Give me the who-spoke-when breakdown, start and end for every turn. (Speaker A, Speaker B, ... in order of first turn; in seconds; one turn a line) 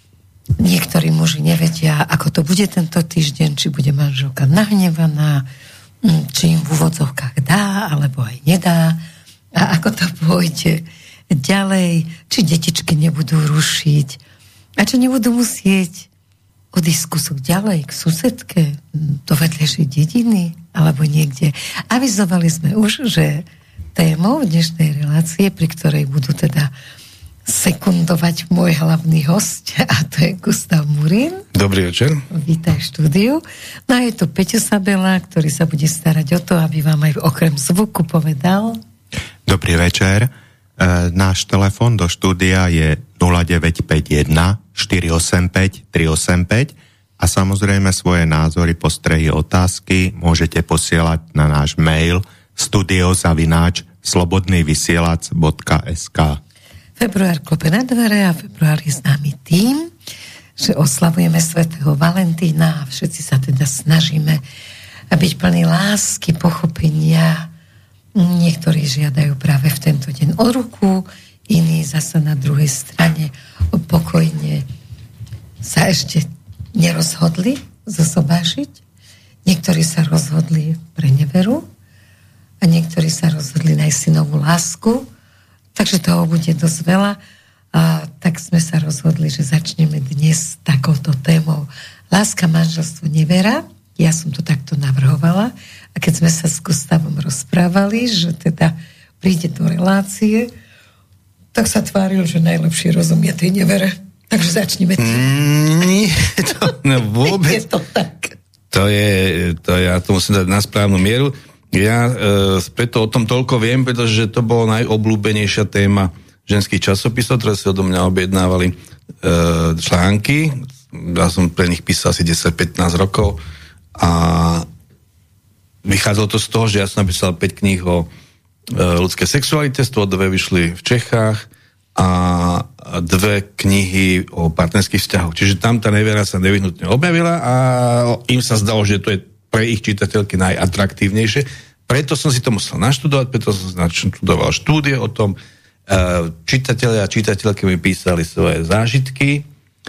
Speaker A: 0.6-5.5
Speaker A: 6.0-9.0
Speaker A: 9.6-14.2
Speaker A: 14.8-16.1
Speaker A: 16.7-26.7
Speaker A: 27.5-31.4
Speaker B: 31.5-32.2
Speaker A: 32.3-38.8
Speaker C: 39.5-56.4
Speaker A: 57.0-59.9
Speaker A: 60.6-64.4
Speaker A: 65.1-67.5
Speaker A: 68.2-74.7
Speaker A: 75.6-78.8
Speaker A: 79.5-81.7
Speaker A: 82.6-85.1
Speaker A: 85.8-87.2
Speaker A: 87.7-100.5
Speaker A: 101.5-105.2
Speaker B: 105.0-107.6
Speaker A: 107.2-108.3
Speaker B: 108.7-123.4
Speaker B: 124.0-124.7
Speaker B: 125.8-128.1
Speaker B: 128.7-149.5